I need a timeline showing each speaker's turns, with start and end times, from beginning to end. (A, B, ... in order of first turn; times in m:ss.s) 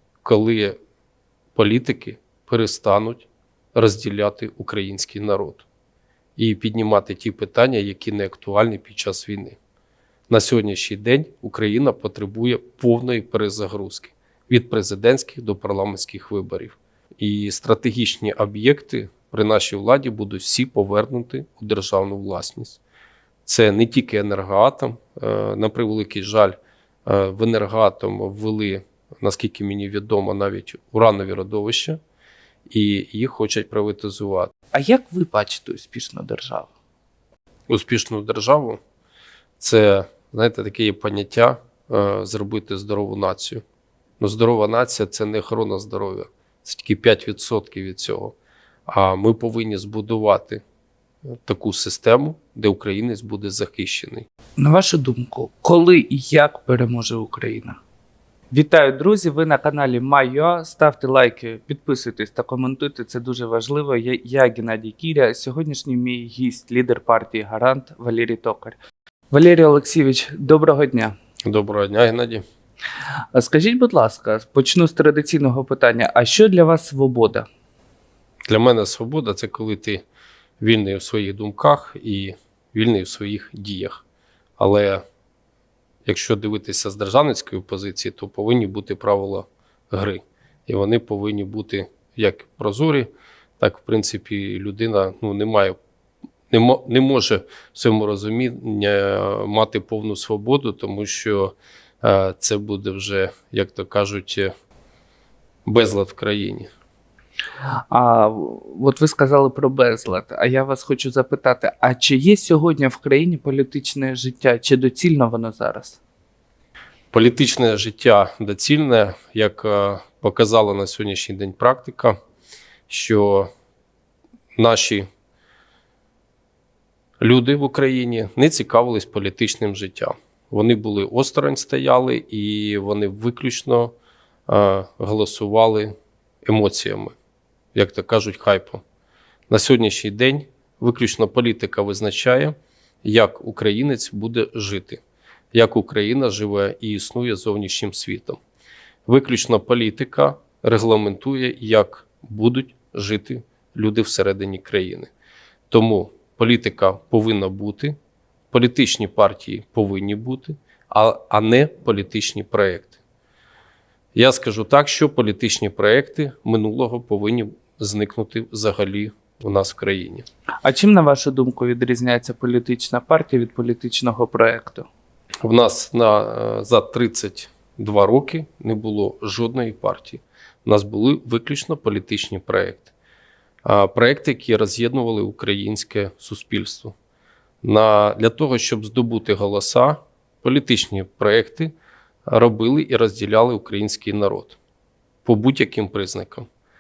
0:00.2-0:00.8 A
0:01.6-0:05.7 A
0:06.4-0:09.6 A
0:10.3-0:22.8 A
0:23.5-0:32.0 A
0:32.7-0:34.5 A
0:34.7-0:36.7 B
0:37.7-0:38.8 A
0:39.6-0:43.6 A
0:44.2-0:48.4 A
0:48.9-0:50.6 A
0:51.3-0:54.3 A
0:54.6-0:57.8 B
0:58.5-1:08.8 B
1:09.3-1:11.2 B
1:11.4-1:12.4 A
1:13.3-1:17.5 B
1:18.5-1:20.0 A
1:20.6-1:24.0 A
1:24.6-1:25.0 A
1:26.1-1:33.1 A
1:33.6-1:35.8 A
1:36.5-1:44.5 A
1:45.6-1:46.7 A
1:47.9-1:56.0 B
1:57.1-2:02.2 A
2:02.9-2:03.5 A
2:04.6-2:05.1 A
2:07.2-2:13.9 A
2:14.5-2:15.9 A
2:16.4-2:17.2 A
2:17.7-2:18.8 A
2:19.5-2:25.0 A
2:25.5-2:28.4 A
2:29.1-2:35.1 A
2:35.7-2:38.0 A
2:38.5-2:43.0 A
2:44.2-2:50.3 A
2:50.6-2:54.9 B
2:55.4-3:02.9 A
3:03.6-3:07.0 A
3:07.6-3:11.7 A
3:12.3-3:14.6 A
3:15.2-3:16.5 A